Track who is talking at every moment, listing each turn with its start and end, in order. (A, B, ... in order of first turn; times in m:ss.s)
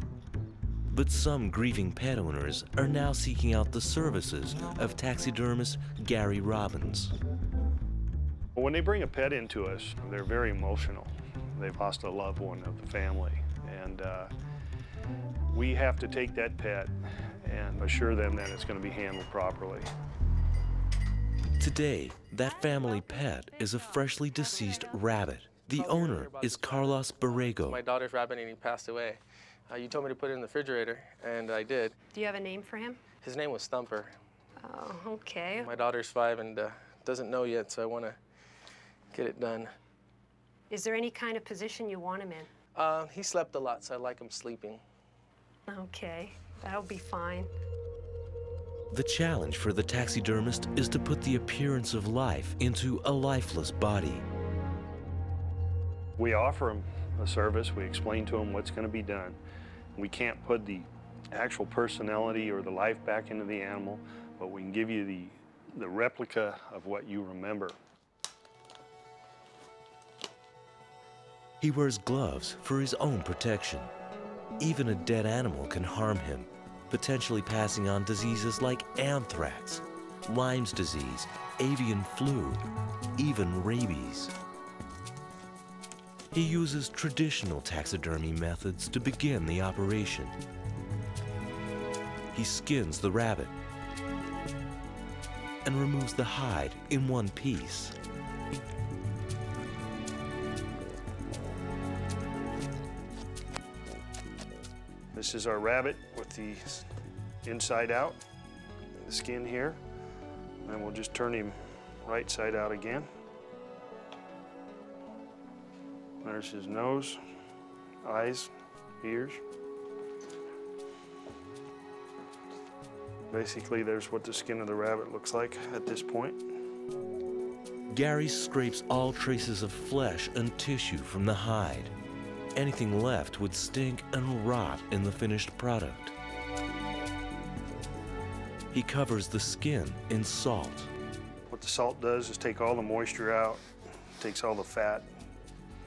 0:00.9-0:07.1 A
0:08.5-0:14.3 B
0:15.5-0:19.9 B
0:21.6-0:27.8 A
0:25.7-0:31.9 C
0:32.1-0:33.0 D
0:33.2-0:34.1 C
0:34.6-0:35.7 D
0:35.5-0:38.2 C
0:39.1-0:39.7 C
0:40.7-0:42.5 D
0:42.7-0:44.8 C
0:45.7-0:47.5 D
0:48.9-0:54.2 A
0:56.2-0:59.4 B
1:00.0-1:07.8 B
1:11.6-1:13.9 A
1:14.6-1:22.6 A
1:23.2-1:24.3 A
1:26.3-1:30.4 A
1:32.3-1:33.5 A
1:35.6-1:38.0 A
1:45.1-1:46.8 B
1:47.4-1:48.2 B
1:49.0-1:49.8 B
1:50.6-1:53.1 B
1:56.2-1:57.2 B
1:58.0-1:59.4 B
2:03.3-2:06.4 B
2:07.9-2:11.9 A
2:12.5-2:16.1 A
2:18.7-2:20.9 A
2:21.5-2:23.6 B
2:24.2-2:25.1 B